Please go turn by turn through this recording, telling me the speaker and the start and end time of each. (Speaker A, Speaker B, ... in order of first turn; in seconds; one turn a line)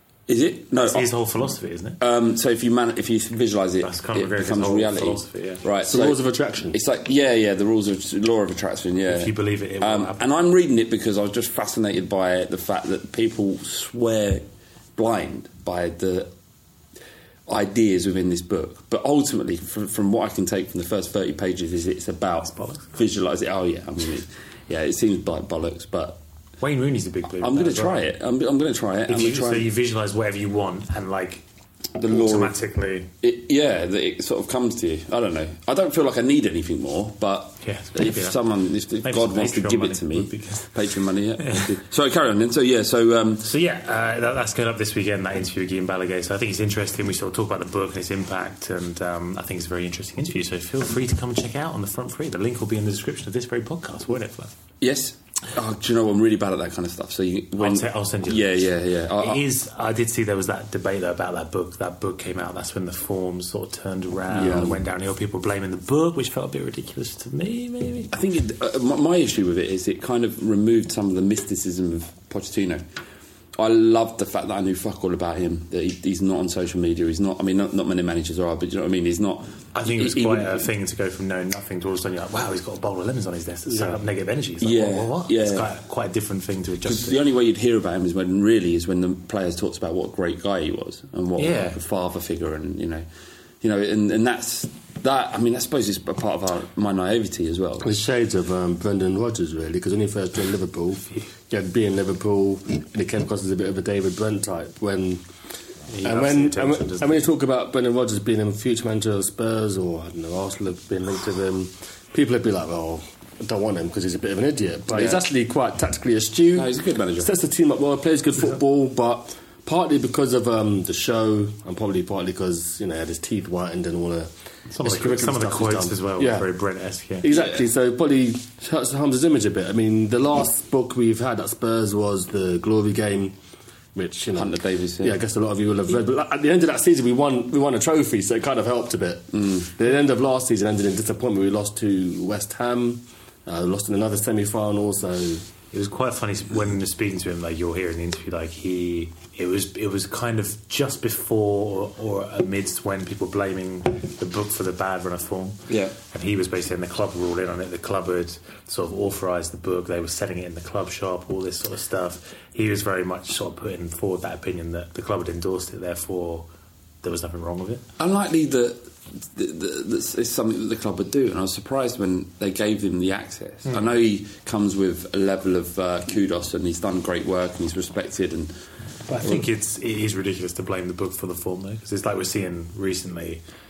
Speaker A: 0.3-1.1
Speaker B: 0.8-2.0
Speaker A: 2.0-6.2
Speaker B: 3.8-5.6
Speaker C: 5.8-6.8
Speaker A: 6.7-14.4
Speaker B: 9.1-10.3
Speaker A: 15.0-16.3
Speaker A: 17.5-26.2
Speaker B: 22.6-22.9
Speaker B: 26.6-28.0
Speaker A: 27.4-29.7
Speaker B: 29.1-31.4
Speaker A: 32.0-32.6
Speaker B: 32.1-33.1
Speaker A: 33.2-43.4
Speaker B: 37.6-38.4
Speaker B: 39.0-40.8
Speaker B: 43.4-54.5
Speaker A: 54.8-59.4
Speaker B: 57.6-58.7
Speaker B: 59.2-68.1
Speaker A: 64.3-64.8
Speaker A: 68.1-72.8
Speaker A: 73.6-80.7
Speaker B: 79.7-87.2
Speaker A: 84.6-85.7
Speaker A: 86.8-93.0
Speaker B: 91.4-91.8
Speaker A: 93.6-97.9
Speaker C: 97.8-105.2
Speaker B: 105.9-107.2
Speaker C: 106.0-126.5
Speaker A: 114.9-115.2
Speaker A: 116.5-117.3
Speaker B: 124.7-127.3
Speaker C: 127.2-133.4
Speaker C: 133.9-145.4
Speaker A: 134.4-135.2
Speaker A: 139.3-139.7
Speaker B: 145.7-166.5
Speaker A: 155.7-156.0
Speaker B: 167.0-167.8
Speaker A: 168.0-168.8
Speaker A: 169.3-178.5
Speaker B: 179.1-183.4